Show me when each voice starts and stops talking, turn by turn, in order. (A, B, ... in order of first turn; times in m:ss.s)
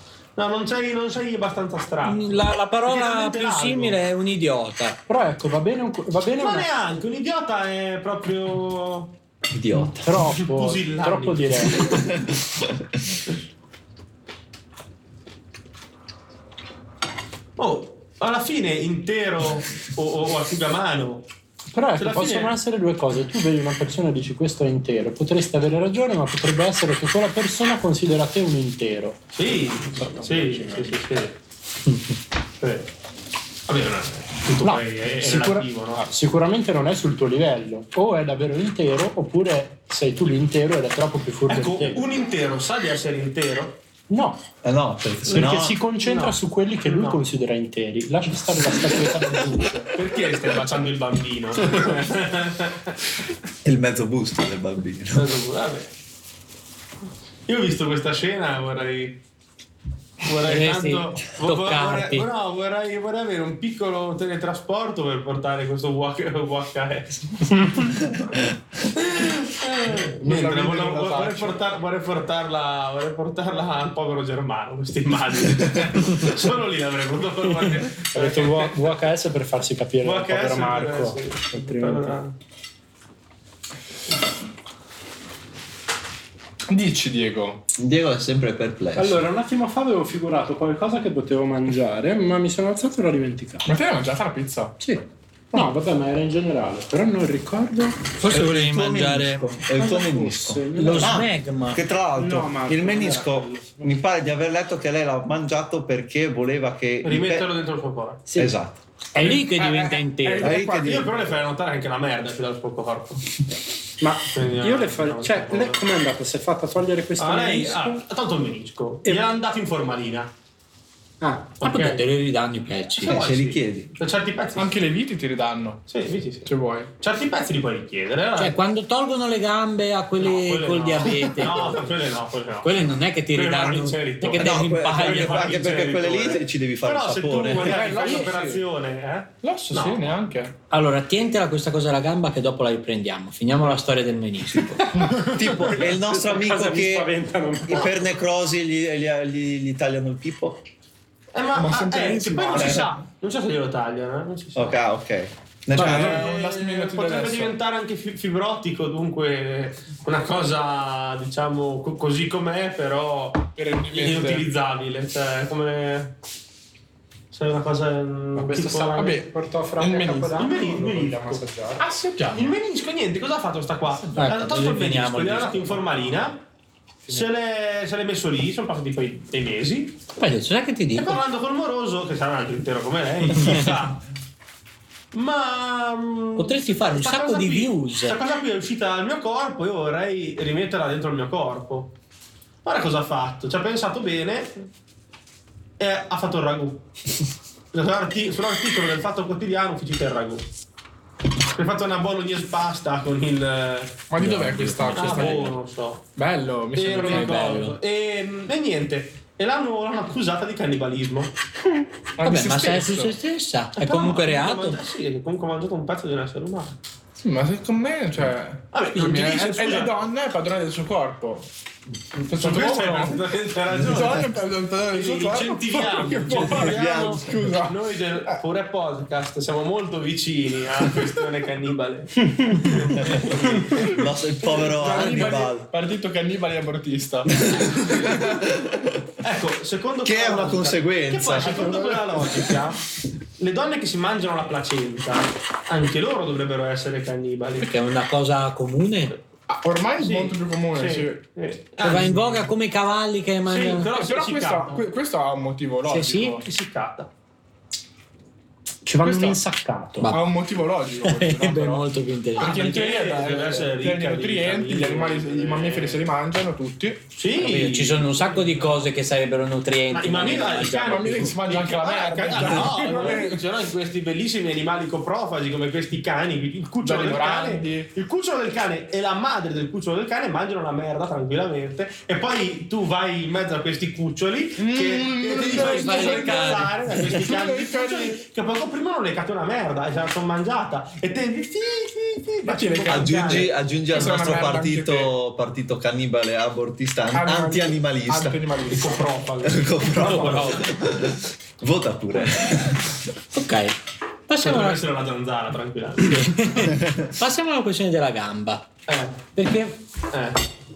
0:00.4-0:04.0 A
0:02.0-0:05.0 B
0:05.1-0:06.7 C
0:06.3-0:09.2 A
0:09.5-0:10.2 D
0:09.8-0:12.0 C
0:10.3-0:12.1 A
0:11.9-0:12.8 D
0:17.6-0:21.3 A
0:21.7-0:31.0 C
0:22.0-0:22.5 A
0:29.3-0:31.4 A
0:32.6-0:32.9 A
0:33.7-0:36.1 A
0:34.6-0:42.0 C
0:41.5-0:43.8 A
0:44.1-0:44.4 C
0:44.6-0:45.8 D
0:45.3-0:47.2 A
0:45.3-0:49.9 C
0:49.9-0:53.0 A
0:53.6-0:55.4 D
0:55.1-0:55.9 A
0:57.5-0:59.2 A
1:00.2-1:08.0 A
1:00.4-1:02.3 B
1:09.0-1:18.9 A
1:09.9-1:11.6 E
1:18.1-1:22.2 C
1:20.0-1:22.3 A
1:26.7-1:27.6 E
1:27.8-1:29.2 D
1:29.0-1:33.7 C
1:33.6-1:34.8 E
1:34.8-1:38.1 C
1:38.2-1:39.6 B
1:38.2-1:47.5 D
1:39.8-1:41.2 C
1:40.8-1:41.8 B
1:42.2-1:43.9 C
1:47.0-1:48.2 A
1:48.3-1:48.6 C
1:48.4-1:48.8 D
1:49.2-1:50.6 B
1:49.2-1:51.1 E
1:50.4-1:51.1 D
1:50.7-1:53.2 A
1:54.0-1:58.0 C
1:54.3-1:55.8 A
1:57.2-2:00.3 A
2:01.2-2:02.0 C
2:01.6-2:03.2 B
2:01.6-2:02.0 A
2:03.0-2:04.7 A
2:03.0-2:03.9 D
2:04.6-2:05.8 E
2:05.9-2:08.6 A
2:06.5-2:06.9 E
2:08.4-2:11.8 B
2:10.2-2:20.2 A
2:12.6-2:15.6 B
2:14.4-2:17.9 D
2:17.5-2:18.6 E
2:17.8-2:18.2 B
2:19.4-2:20.5 E
2:20.7-2:24.9 B
2:25.0-2:25.3 E
2:25.0-2:28.1 C
2:25.1-2:27.1 D
2:27.7-2:30.6 D
2:31.3-2:34.8 A
2:31.5-2:32.9 E
2:32.6-2:32.9 D
2:34.6-2:36.3 D
2:35.7-2:37.6 E
2:35.8-2:46.2 A
2:43.6-2:44.5 E
2:47.3-2:49.2 A
2:48.4-2:51.8 C
2:48.9-2:52.5 E
2:50.4-2:51.4 A
2:52.3-2:56.4 A
2:54.2-2:55.9 B
2:57.1-3:00.0 A
3:00.2-3:01.2 B
3:01.0-3:04.0 A
3:03.4-3:03.7 B
3:05.1-3:11.9 A
3:06.4-3:08.2 B
3:12.6-3:14.7 A
3:15.8-3:16.9 A
3:17.7-3:20.4 A
3:21.5-3:24.0 A
3:24.1-3:25.6 E
3:24.2-3:25.5 B
3:24.9-3:26.0 A
3:26.2-3:27.7 E
3:26.8-3:31.3 A
3:27.0-3:27.7 B
3:32.2-3:33.2 E
3:32.2-3:34.8 B
3:33.8-3:36.8 A
3:37.2-3:41.5 E
3:38.7-3:40.0 A
3:42.2-3:44.3 A
3:42.2-3:48.4 E
3:44.9-3:54.1 A
3:46.5-3:47.5 D
3:53.0-3:55.7 D
3:54.7-3:58.1 E
3:54.9-3:55.2 A
3:57.5-3:58.9 D
3:59.2-4:02.8 A
4:00.0-4:02.5 D
4:03.4-4:07.7 A
4:07.6-4:09.2 B
4:09.5-4:11.2 E
4:10.0-4:12.5 A
4:11.8-4:13.9 B
4:13.5-4:14.8 A
4:13.9-4:16.5 E
4:15.8-4:16.4 B
4:16.4-4:17.1 A
4:18.8-4:20.1 C
4:19.0-4:19.4 E
4:20.0-4:20.2 B
4:20.1-4:27.0 E
4:21.0-4:23.0 B
4:22.4-4:26.0 A
4:27.2-4:28.8 A
4:27.4-4:31.3 B
4:29.9-4:53.5 A
4:30.7-4:33.4 E
4:36.8-4:37.9 E
4:44.6-4:48.2 E
4:45.4-4:46.7 B
4:52.4-4:55.1 E
4:52.9-4:58.6 D
4:57.1-4:59.2 E
4:58.7-5:00.6 A
4:59.4-5:03.0 D
5:00.0-5:00.6 B
5:00.1-5:00.5 E
5:03.3-5:03.8 B
5:04.3-5:04.8 B
5:04.4-5:06.7 A
5:06.1-5:08.7 B
5:08.9-5:09.3 A
5:09.4-5:09.8 B
5:10.1-5:10.4 A